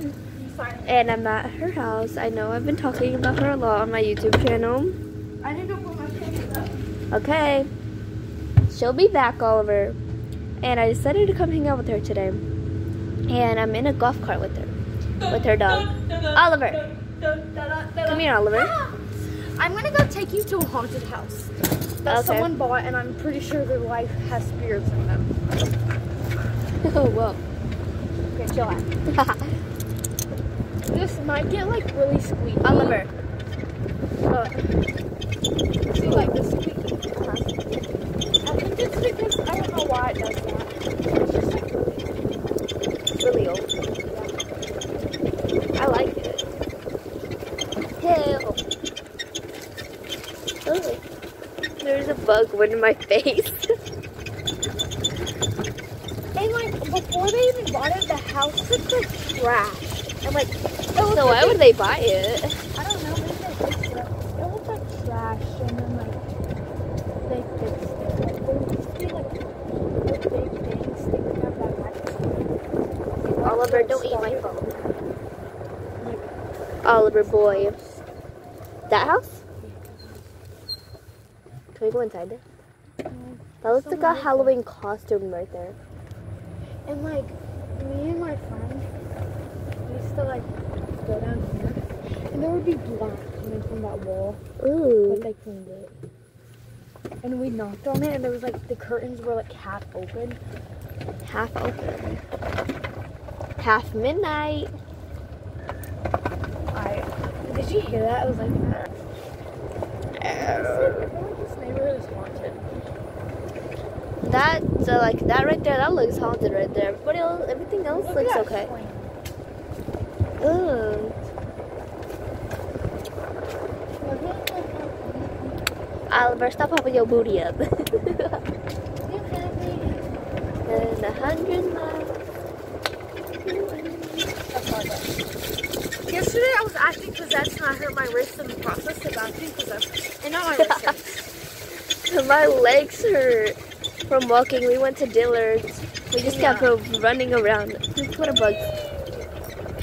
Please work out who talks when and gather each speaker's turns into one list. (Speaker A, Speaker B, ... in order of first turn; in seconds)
Speaker A: 0.2-1.2, 5.4-6.8, 18.5-21.5, 22.0-25.3, 28.3-28.9, 30.9-33.0, 34.3-34.9, 35.9-37.4, 38.4-42.4, 56.3-61.6, 62.8-66.2, 67.2-72.5, 73.2-74.8, 76.0-76.3, 77.0-78.0, 79.6-80.2, 83.1-84.6, 86.8-88.9, 89.8-94.4, 95.1-95.9, 97.2-100.4, 106.7-108.9, 110.2-112.7, 117.9-119.1, 124.0-125.7, 129.0-131.4, 134.5-135.1, 136.1-141.2, 146.2-146.7
Speaker B: 0.8-5.0, 7.1-7.7, 8.7-10.0, 10.6-12.4, 13.3-16.9, 17.9-18.7, 22.1-22.5, 26.8-27.4, 29.1-29.5, 32.6-33.1, 35.9-36.3, 37.1-37.5, 43.1-44.3, 45.8-46.5, 48.0-48.6, 50.6-51.0, 51.8-53.7, 61.1-62.5, 73.4-74.7, 76.8-77.8, 78.9-79.4, 81.7-82.4, 83.6-85.8, 94.6-95.3, 101.2-102.2, 103.6-104.7, 110.2-111.1, 114.2-118.7, 120.4-121.1, 126.1-128.4, 130.7-132.2, 133.4-134.3, 140.6-140.9, 142.1-143.6, 144.1-148.7